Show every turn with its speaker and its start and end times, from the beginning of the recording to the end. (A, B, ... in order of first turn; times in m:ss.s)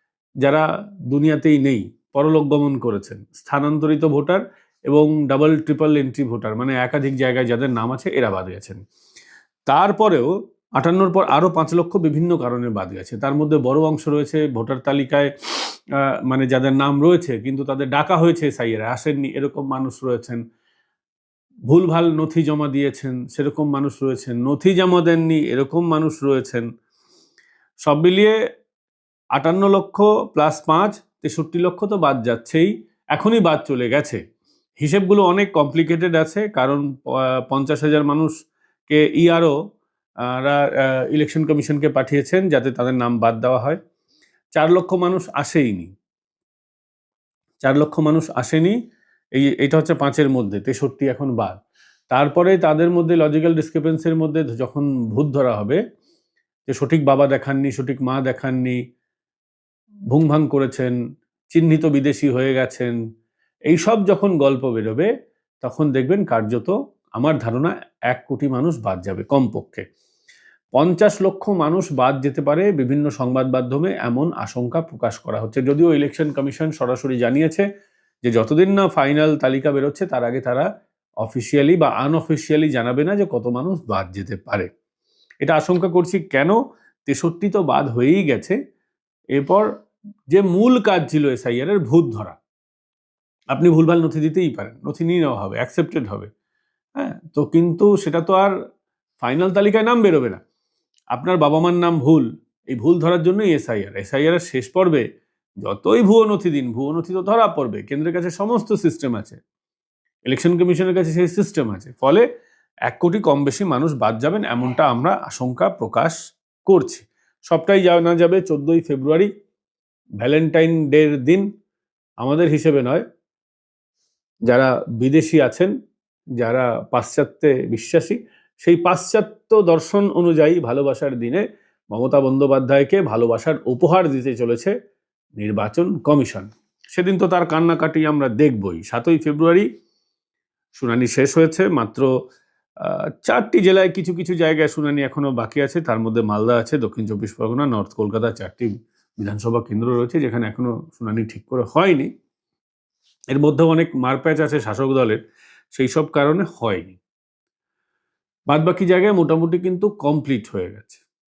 0:00.4-0:08.8 A
0:09.7-0:15.3 A
0:16.3-0:20.4 A
0:21.7-0:26.7 A
0:27.9-0:28.4 A
0:29.4-0:34.2 A
0:34.8-0:38.4 A
0:38.9-0:39.6 A
0:40.3-0:43.8 A
0:44.6-0:45.9 A
0:47.6-0:48.8 A
0:49.4-0:51.6 A
0:52.1-0:55.8 A
0:56.7-0:58.8 A
1:00.1-1:01.0 A
1:01.5-1:03.0 A
1:03.7-1:05.1 A
1:05.6-1:09.8 A
1:10.8-1:17.7 A
1:18.2-1:20.7 A
1:21.2-1:24.7 A
1:25.4-1:28.6 A
1:29.4-1:29.7 A
1:30.3-1:32.4 A
1:33.5-1:36.3 A
1:37.0-1:38.6 A
1:39.2-1:40.4 A
1:41.1-1:45.0 A
1:45.6-1:49.4 A
1:50.3-1:52.3 A
1:52.9-1:59.3 A
2:00.2-2:01.5 A
2:02.2-2:03.0 A
2:04.5-2:05.7 A
2:06.4-2:14.7 A
2:15.4-2:19.7 A
2:20.8-2:22.1 A
2:22.8-2:32.1 A
2:33.3-2:35.2 A
2:35.8-2:37.0 A
2:38.5-2:41.0 A